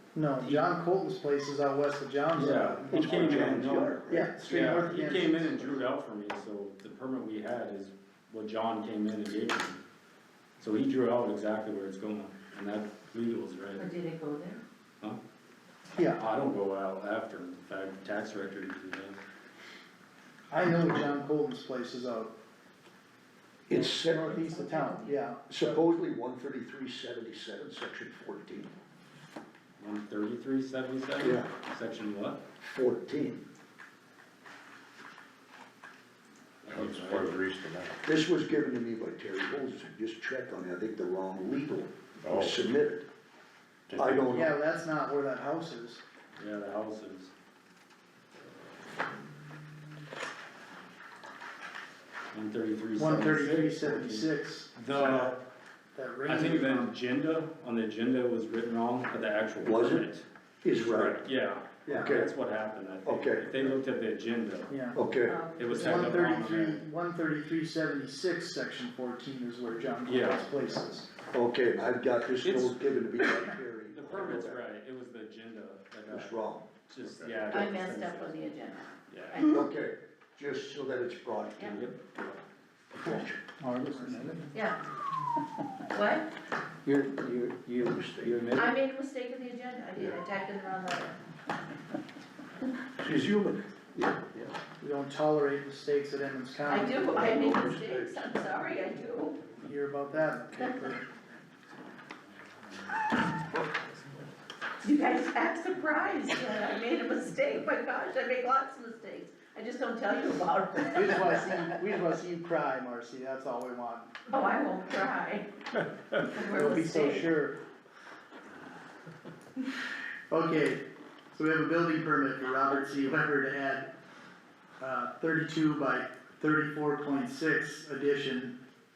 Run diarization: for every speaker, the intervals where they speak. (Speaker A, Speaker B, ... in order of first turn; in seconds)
Speaker A: 0.1-5.8, 16.0-16.2, 20.5-22.3, 23.7-25.8, 44.3-46.0, 53.0-55.3, 56.0-56.9, 64.7-65.0, 65.8-71.1, 83.6-84.5, 94.8-97.4, 99.6-101.0, 110.9-114.1, 116.5-117.6, 120.3-123.9, 124.8-128.6
Speaker B: 0.4-0.7, 2.3-9.8, 10.6-13.9, 16.2-19.2, 29.8-32.4, 36.6-37.4, 46.4-47.3, 52.3-55.4, 56.3-64.7, 65.6-66.8, 70.0-70.7, 72.4-73.2, 73.9-78.4, 79.1-79.6, 81.6-82.4, 88.2-88.6
Speaker C: 2.9-4.3, 23.7-24.4, 25.5-28.7, 31.2-31.5, 32.6-33.4, 38.0-43.1, 44.0-44.5, 59.6-60.1, 60.6-61.2, 61.9-62.3, 63.0-63.8, 64.9-65.4, 71.3-74.6, 76.1-76.7, 79.4-81.8, 83.0-83.5, 86.9-88.5, 93.0-94.6, 97.0-98.3
Speaker D: 13.8-14.6, 24.3-25.1, 65.3-66.3, 77.5-79.5, 84.5-84.8, 85.9-86.3, 88.5-91.2, 96.7-99.4, 100.6-100.9, 104.8-111.7, 114.3-115.5, 116.2-117.3
Speaker E: 36.7-38.0, 42.2-42.6, 43.9-44.4, 77.0-77.4